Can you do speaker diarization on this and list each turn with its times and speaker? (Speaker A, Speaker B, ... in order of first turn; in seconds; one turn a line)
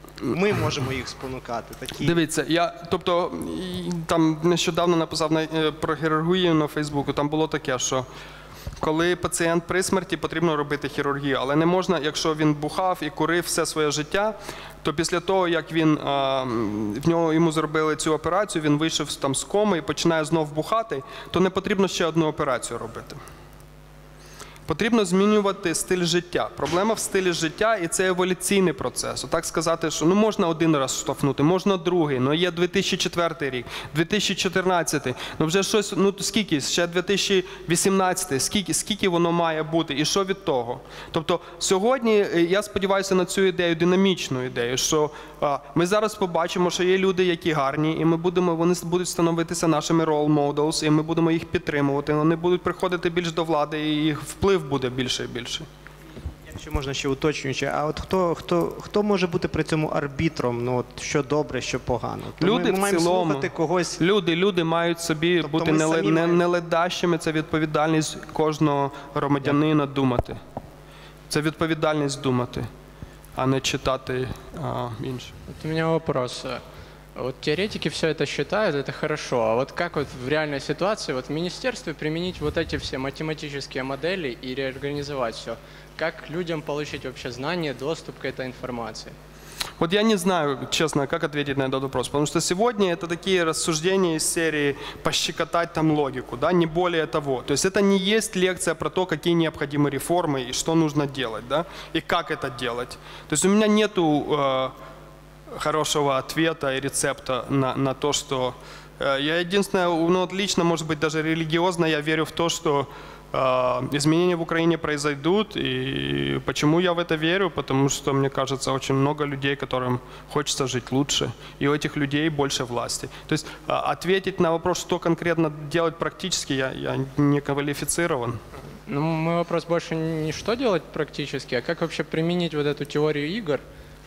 Speaker A: 0.2-2.2
Speaker B: 2.0-8.1
Speaker B: 8.8-23.2
Speaker B: 24.7-55.7
Speaker A: 56.5-64.0
Speaker B: 62.4-70.4
Speaker A: 65.4-66.5
Speaker B: 71.3-72.7
Speaker B: 73.4-75.3
Speaker C: 75.5-76.6
Speaker C: 77.2-89.2
Speaker B: 89.8-104.7
Speaker B: 105.5-128.4
Speaker C: 128.9-133.6